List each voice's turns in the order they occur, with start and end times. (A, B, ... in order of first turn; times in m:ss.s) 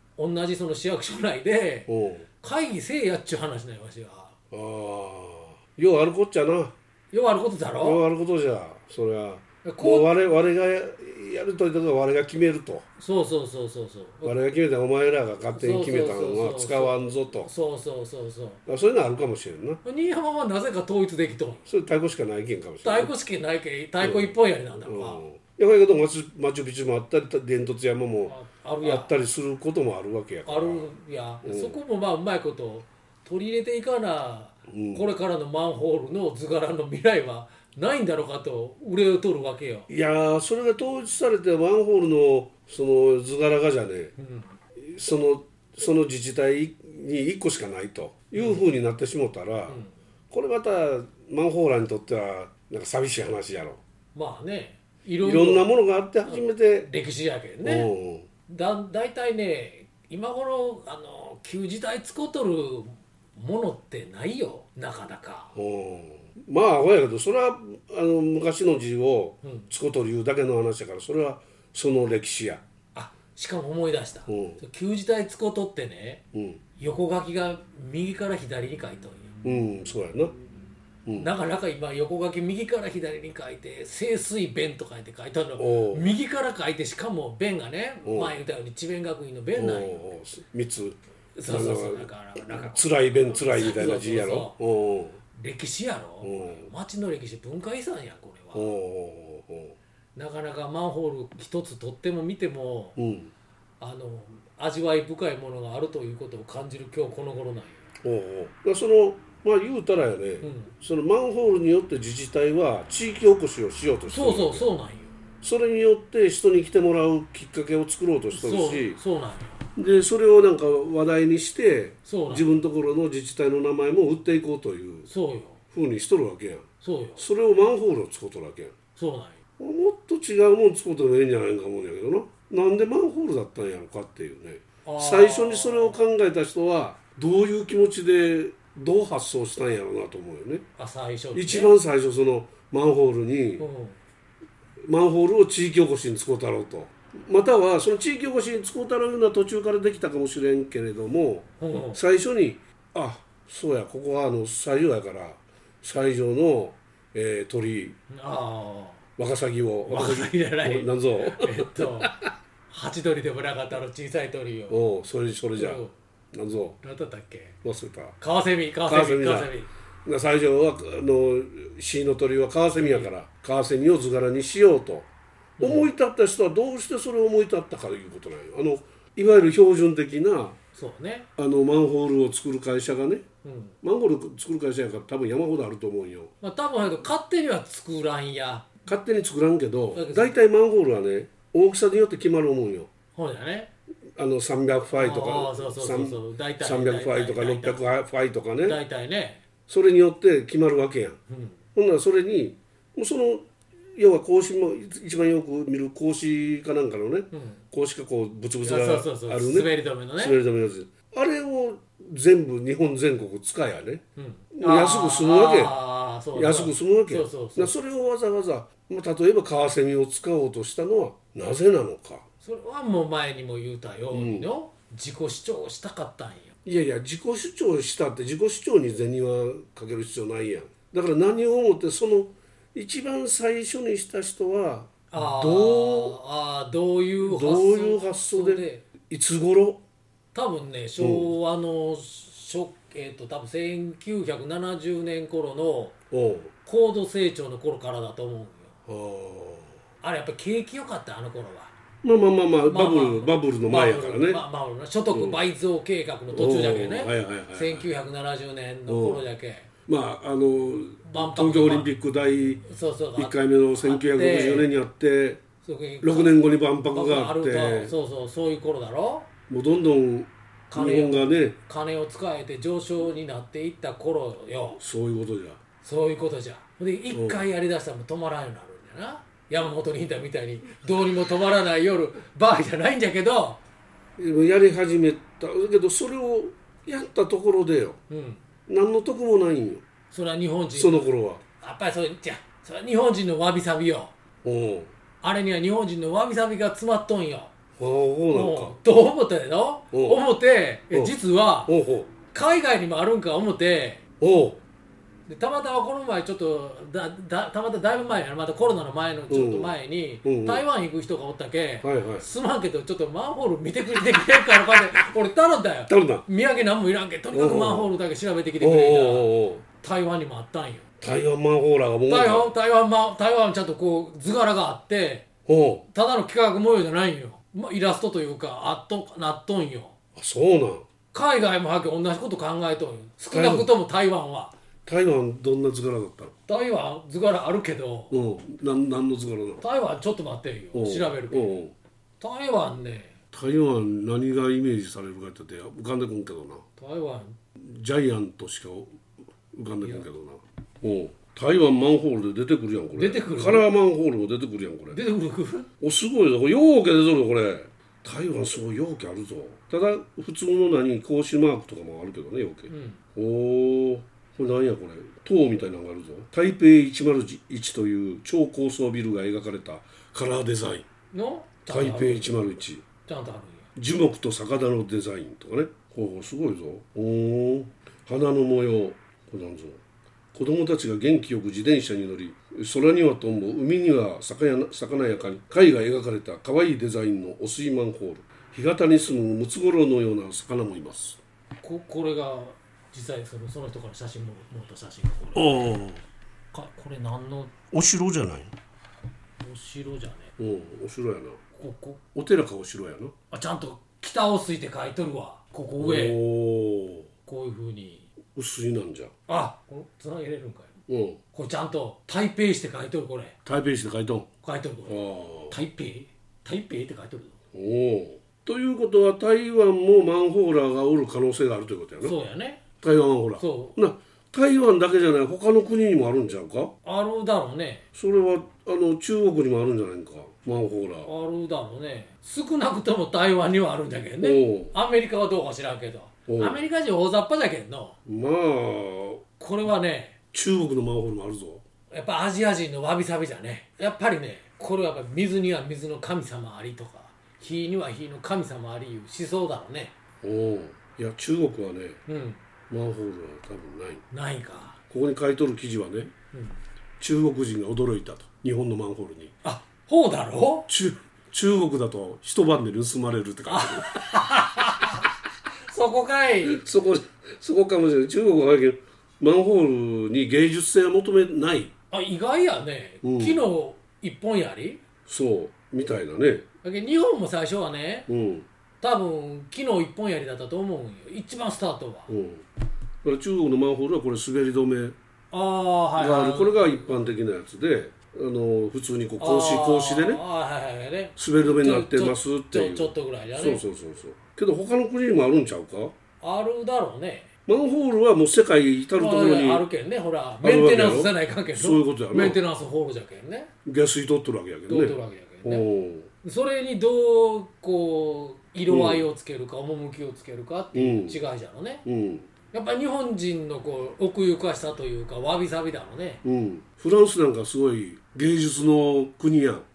0:00.2-0:01.9 A
0:01.9-0:02.2 B
0:02.4-0:04.3 A
0:04.5-0:06.7 B
0:07.1-0:08.0 A
0:07.8-0:12.8 B
0:09.6-0:10.1 A
0:13.0-0:14.3 A
0:14.2-0:17.5 B
0:15.5-0:18.6 A
0:18.6-0:19.8 B
0:19.8-0:21.6 A
0:21.6-0:23.1 B
0:22.8-0:25.2 A
0:24.0-0:30.9 B
0:28.3-0:29.1 A
0:30.4-0:39.9 A
0:31.4-0:31.8 B
0:34.7-0:35.0 B
0:39.9-0:44.1 B
0:44.2-0:44.5 A
0:44.8-0:53.8 B
0:48.4-0:48.6 A
0:54.1-0:55.7 A
0:55.2-0:56.9 B
0:56.3-0:57.9 A
0:57.6-0:58.3 B
0:58.5-1:05.6 A
1:05.5-1:12.6 B
1:09.4-1:09.7 A
1:12.9-1:16.2 A
1:14.3-1:14.6 B
1:16.3-1:16.6 B
1:16.8-1:19.3 A
1:19.4-1:20.3 B
1:21.0-1:21.3 B
1:21.2-1:30.0 A
1:25.6-1:26.1 B
1:28.0-1:28.3 B
1:29.6-1:35.2 B
1:31.4-1:34.6 A
1:35.3-1:38.7 A
1:36.2-1:36.7 B
1:38.5-1:39.8 B
1:40.2-1:43.0 A
1:43.0-1:43.3 B
1:43.8-1:47.8 A
1:48.0-1:54.7 B
1:50.4-1:50.7 A
1:54.1-1:55.1 A
1:55.4-1:59.0 B
1:58.3-1:59.6 A
1:59.8-2:05.1 B
2:02.0-2:02.5 A
2:05.1-2:05.6 A
2:05.7-2:08.8 B
2:06.8-2:07.3 A
2:09.0-2:09.4 A
2:09.6-2:20.6 B
2:14.8-2:16.0 A
2:20.8-2:21.7 A
2:21.3-2:23.6 B
2:23.6-2:24.0 A
2:24.8-2:38.0 B
2:31.6-2:32.0 A
2:38.1-2:39.0 A
2:39.2-2:42.3 B
2:39.8-2:44.8 A
2:44.7-2:46.8 B
2:45.6-2:45.9 A
2:46.8-2:47.6 A
2:47.6-2:48.2 B
2:48.2-2:49.7 A
2:48.8-2:49.5 B
2:50.0-2:55.1 B
2:52.8-2:53.1 A
2:55.6-2:55.9 A
2:55.6-3:00.6 B
3:00.7-3:01.3 A
3:01.4-3:03.2 B
3:03.4-3:03.7 A
3:03.8-3:06.3 B
3:06.4-3:08.7 A
3:08.8-3:12.9 B
3:09.9-3:10.3 A
3:13.1-3:13.7 A
3:14.2-3:18.8 B
3:14.9-3:17.8 A
3:18.6-3:19.4 A
3:19.7-3:21.2 B
3:21.3-3:21.6 A
3:21.7-3:35.8 B
3:27.3-3:27.6 A
3:28.6-3:30.4 A
3:34.2-3:37.7 A
3:36.3-3:42.2 B
3:42.4-3:46.6 A
3:44.1-3:44.5 B
3:46.6-3:56.2 B
3:55.1-3:58.8 A
3:57.2-3:59.8 B
4:00.3-4:06.0 A
4:01.0-4:01.3 B
4:06.1-4:06.5 B
4:06.6-4:08.8 A
4:08.9-4:09.8 B
4:10.0-4:11.7 A
4:12.0-4:14.4 B
4:12.7-4:19.7 A
4:15.1-4:15.4 B
4:16.3-4:17.9 B
4:18.9-4:19.2 B
4:19.9-4:22.6 B
4:21.0-4:21.9 A
4:22.6-4:24.7 A
4:23.2-4:25.4 B
4:25.6-4:26.4 A
4:26.0-4:27.9 B
4:26.9-4:29.3 A
4:29.5-4:31.6 B
4:30.7-4:34.8 A
4:34.8-4:35.6 B
4:35.8-4:43.6 A
4:37.1-4:37.4 B
4:44.2-4:48.0 B
4:48.1-4:48.4 A
4:48.7-4:49.8 B
4:50.1-4:54.1 A
4:50.7-4:51.4 B
4:54.4-4:54.9 B
4:55.2-4:57.5 A
4:57.8-4:58.8 B
4:58.3-5:01.7 A
4:59.9-5:00.2 B
5:00.9-5:02.1 B
5:02.3-5:04.0 A
5:04.2-5:04.6 B
5:05.3-5:20.8 A
5:09.3-5:10.6 B
5:11.8-5:12.2 B
5:15.9-5:16.2 B
5:17.3-5:17.9 B
5:18.6-5:19.6 B
5:21.0-5:22.5 B
5:22.1-5:25.3 A
5:25.4-5:25.8 B
5:25.9-5:29.9 A
5:30.2-5:30.8 B
5:31.1-5:34.5 A
5:33.3-5:33.7 B
5:34.8-5:36.3 B
5:36.5-5:38.2 A
5:38.1-5:39.6 B
5:39.6-5:41.6 A
5:40.7-5:41.7 B
5:42.2-5:43.2 A
5:43.3-5:46.6 B
5:46.8-5:47.4 A
5:47.6-5:48.9 B
5:49.5-5:55.0 B
5:53.0-5:53.7 A
5:54.9-5:55.7 A
5:55.8-6:10.8 B
6:02.7-6:03.0 A
6:11.1-6:12.4 A
6:11.7-6:12.8 B
6:13.0-6:13.7 A
6:13.8-6:19.8 B
6:20.3-6:31.2 B
6:31.6-6:35.7 A
6:35.3-6:36.0 B
6:36.5-6:37.5 A
6:37.7-6:38.5 B
6:39.4-6:40.3 A
6:40.4-6:41.4 B
6:41.5-6:42.0 A
6:42.1-6:43.1 B
6:43.3-6:46.2 A
6:45.8-6:47.1 B
6:47.2-6:48.1 A
6:48.3-6:49.1 B
6:49.3-6:50.8 A
6:50.9-6:51.2 B
6:51.3-6:53.4 A
6:53.4-6:54.3 B
6:54.4-6:57.3 A
6:54.9-6:55.6 B
6:57.5-7:02.2 B
7:02.0-7:02.6 A
7:02.8-7:06.7 B
7:03.4-7:03.8 A
7:06.8-7:07.8 A
7:07.9-7:11.1 B
7:11.0-7:18.0 A
7:14.2-7:14.7 B
7:16.3-7:16.6 B
7:18.0-7:19.2 B
7:19.4-7:20.2 A
7:20.3-7:21.6 B
7:21.9-7:29.9 A
7:30.2-7:32.0 B
7:32.1-7:32.4 A
7:32.7-7:34.0 B
7:34.1-7:34.8 A
7:34.9-7:36.1 B
7:37.0-7:39.3 B
7:39.4-7:40.7 A
7:40.7-7:44.2 B
7:43.5-7:45.1 A
7:45.7-7:46.6 A
7:46.4-7:51.7 B
7:51.9-7:54.8 A
7:53.0-7:53.4 B
7:55.1-7:56.4 B
7:56.6-7:58.1 A
7:58.1-7:58.5 B
7:58.8-8:02.1 A
8:02.1-8:02.4 B
8:03.0-8:05.0 B
8:05.3-8:07.0 A
8:06.0-8:10.2 B
8:09.2-8:13.6 A
8:11.2-8:15.9 B
8:16.2-8:17.3 A
8:17.5-8:19.6 B
8:19.0-8:23.5 A
8:20.4-8:22.4 B
8:23.6-8:26.1 B
8:24.7-8:25.7 A
8:26.2-8:31.8 A
8:28.7-8:29.1 B
8:30.7-8:31.2 B
8:31.8-8:32.3 B
8:32.5-8:36.2 A
8:36.2-8:39.6 B